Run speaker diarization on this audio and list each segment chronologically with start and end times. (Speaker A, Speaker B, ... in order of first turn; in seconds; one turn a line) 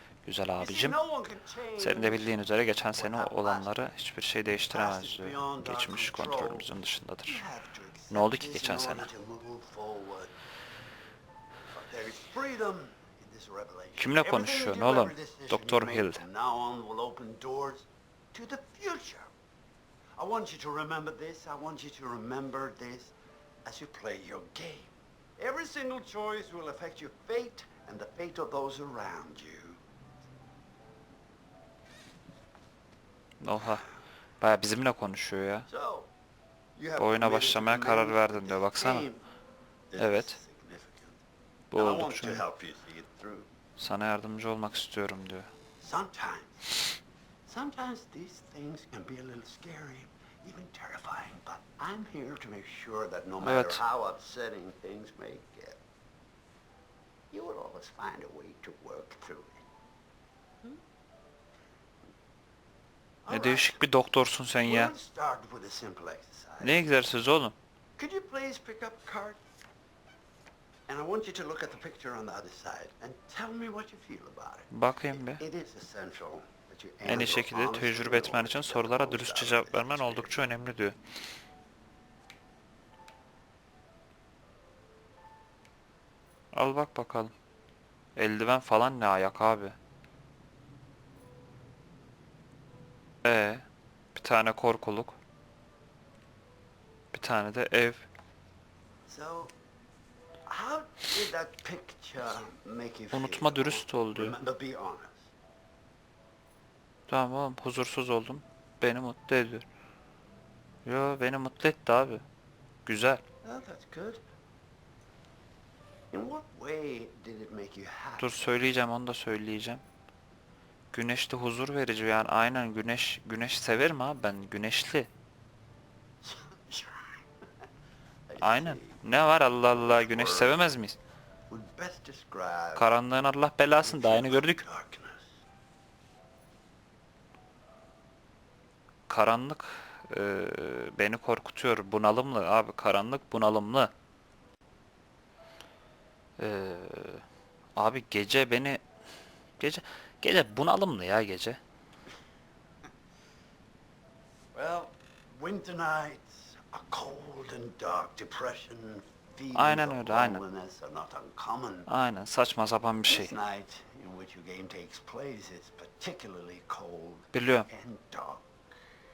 Speaker A: 0.2-1.0
Speaker B: 0.6-2.3
Speaker A: 1.8-7.4
Speaker B: 2.9-3.9
Speaker B: 4.7-6.7
Speaker B: 7.2-10.3
Speaker A: 8.1-9.1
Speaker B: 11.7-19.3
Speaker A: 14.0-16.2
Speaker B: 20.2-23.1
Speaker B: 23.6-29.8
Speaker A: 33.4-33.8
Speaker A: 34.4-35.7
Speaker B: 35.7-36.1
Speaker B: 36.7-39.2
Speaker A: 37.0-39.0
Speaker B: 39.9-41.2
Speaker A: 40.0-40.4
Speaker A: 41.7-42.4
Speaker B: 41.7-43.5
Speaker A: 43.8-45.5
Speaker B: 45.8-46.6
Speaker B: 47.5-55.8
Speaker A: 53.4-53.8
Speaker B: 57.3-59.6
Speaker B: 63.2-63.8
Speaker A: 63.3-64.9
Speaker B: 64.6-66.9
Speaker A: 66.6-67.5
Speaker B: 68.0-69.4
Speaker B: 70.9-80.4
Speaker A: 74.7-75.4
Speaker A: 77.0-81.0
Speaker A: 86.5-87.3
Speaker A: 88.2-89.8
Speaker A: 93.2-93.6
Speaker A: 94.2-95.2
Speaker A: 97.1-98.0
Speaker B: 99.1-99.5
Speaker B: 100.5-105.3
Speaker A: 103.1-104.4
Speaker A: 107.1-109.6
Speaker A: 110.8-112.2
Speaker A: 112.8-113.2
Speaker B: 113.4-114.2
Speaker B: 116.1-118.6
Speaker A: 118.2-119.8
Speaker A: 120.9-125.1
Speaker B: 126.2-127.2
Speaker B: 128.3-129.0
Speaker A: 128.4-131.0
Speaker B: 129.7-130.6
Speaker B: 131.5-132.9
Speaker A: 132.8-134.6
Speaker B: 133.8-135.3
Speaker A: 139.1-143.9
Speaker A: 146.4-147.2
Speaker A: 147.8-148.8
Speaker A: 149.6-151.6
Speaker B: 154.5-161.9
Speaker A: 159.5-160.4
Speaker A: 161.9-163.3
Speaker B: 163.1-168.5
Speaker A: 167.3-167.7